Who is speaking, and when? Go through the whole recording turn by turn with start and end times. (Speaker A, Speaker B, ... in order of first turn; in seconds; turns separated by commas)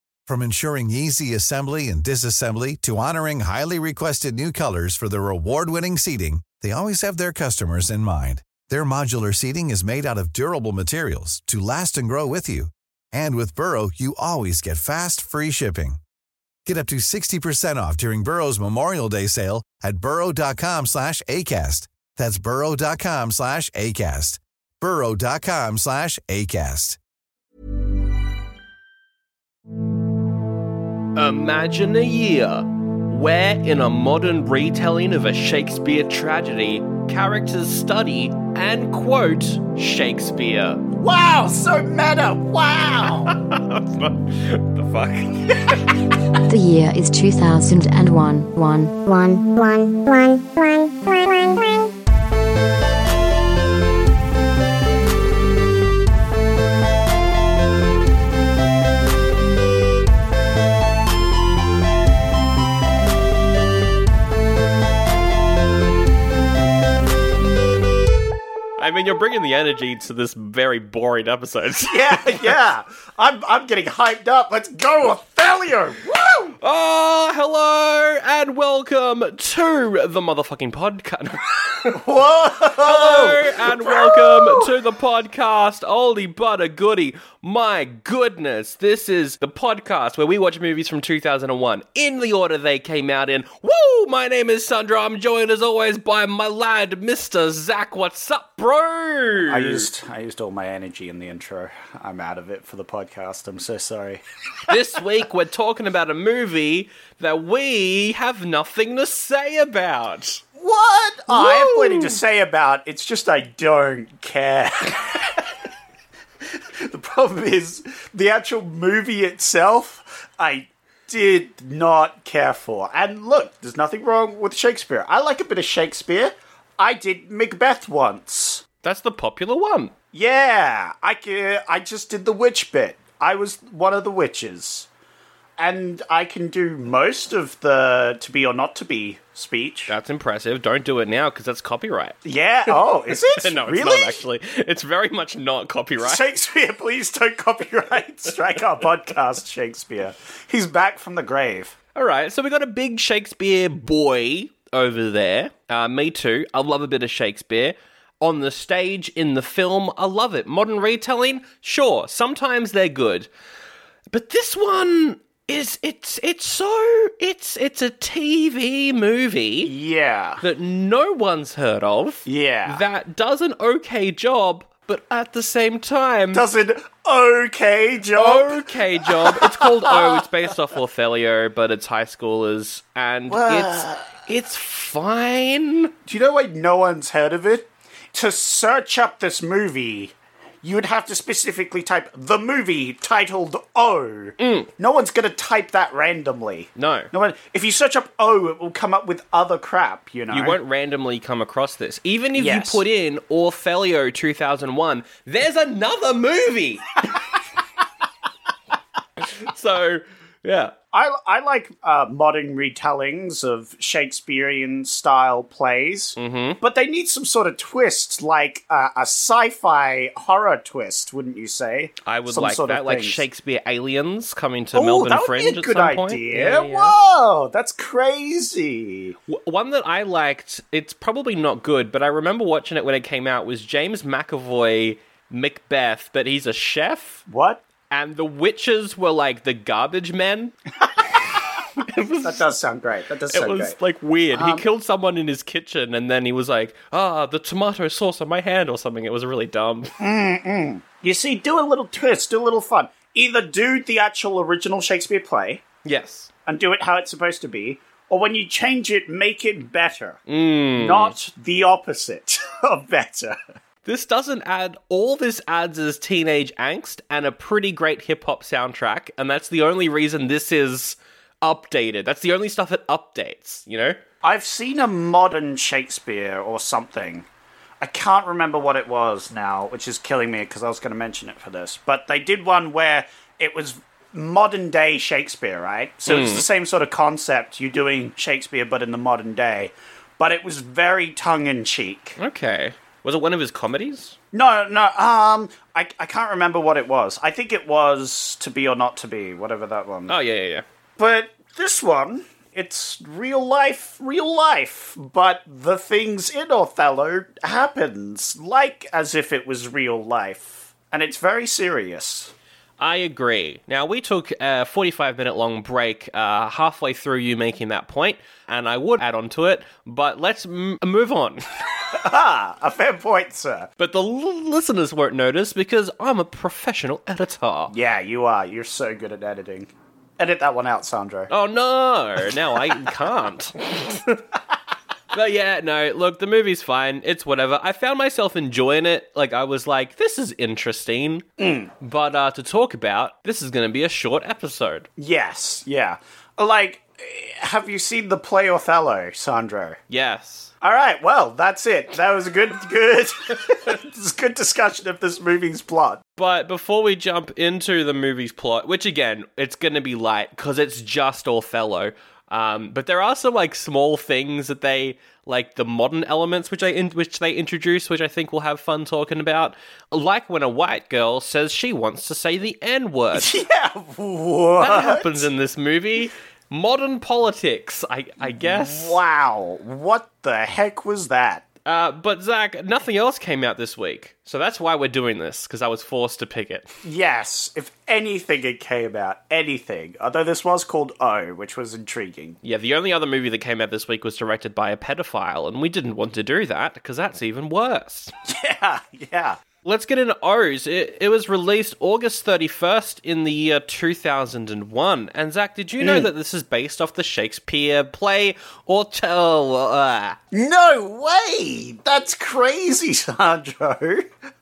Speaker A: 0.3-16.0, Speaker A: 16.7-27.0, Speaker B: 31.1-40.8, Speaker C: 41.0-43.4, Speaker B: 43.0-46.0, Speaker D: 46.5-49.0, Speaker E: 49.0-51.9, Speaker B: 68.8-72.4, Speaker C: 71.8-76.6, Speaker B: 76.6-82.0, Speaker C: 81.9-84.7, Speaker B: 82.8-99.9, Speaker C: 99.5-104.2, Speaker B: 104.7-110.4, Speaker C: 110.6-115.5, Speaker B: 111.3-112.2, Speaker C: 116.6-128.6, Speaker B: 128.8-129.9, Speaker C: 130.1-134.9, Speaker C: 135.6-139.9, Speaker B: 139.9-142.2, Speaker C: 142.2-144.2, Speaker B: 142.7-146.2, Speaker C: 146.0-151.8, Speaker B: 151.9-163.3, Speaker B: 164.1-169.7, Speaker C: 169.7-170.4, Speaker B: 170.4-176.4, Speaker C: 172.3-172.8, Speaker C: 176.3-180.3, Speaker B: 178.2-185.9, Speaker C: 183.3-184.1, Speaker C: 186.1-200.6, Speaker B: 194.4-194.7, Speaker B: 196.8-197.1, Speaker B: 200.3-206.9, Speaker C: 202.4-202.8, Speaker B: 209.2-210.7, Speaker C: 210.9-223.2, Speaker B: 216.2-216.6, Speaker B: 222.0-226.9, Speaker C: 224.7-229.2, Speaker B: 229.3-237.2, Speaker C: 237.3-237.6, Speaker B: 237.9-240.5, Speaker C: 240.8-241.2, Speaker B: 241.8-242.4, Speaker C: 242.2-243.8, Speaker B: 243.3-249.9, Speaker C: 244.3-244.6, Speaker C: 250.0-255.6, Speaker B: 255.8-256.3, Speaker C: 256.5-260.2, Speaker B: 260.3-261.1, Speaker C: 260.8-263.4, Speaker B: 263.9-274.0, Speaker C: 274.2-277.3, Speaker C: 277.8-292.2, Speaker B: 286.1-286.5, Speaker B: 292.2-294.2, Speaker C: 294.3-300.1, Speaker B: 300.1-300.6, Speaker C: 301.0-312.3, Speaker B: 312.8-321.4, Speaker C: 321.9-323.7, Speaker B: 323.8-327.7, Speaker C: 327.7-331.3, Speaker B: 331.3-334.2, Speaker B: 335.1-341.2, Speaker C: 341.4-341.7, Speaker B: 341.8-344.9, Speaker C: 345.0-349.8, Speaker B: 349.9-350.5, Speaker C: 350.6-356.0, Speaker B: 356.2-373.4, Speaker C: 373.1-375.3, Speaker B: 374.6-379.0, Speaker C: 378.2-381.5, Speaker B: 381.6-386.7, Speaker C: 386.8-392.4, Speaker B: 392.4-398.1, Speaker C: 398.2-399.4, Speaker B: 399.6-410.2, Speaker C: 405.8-406.1, Speaker C: 410.3-414.1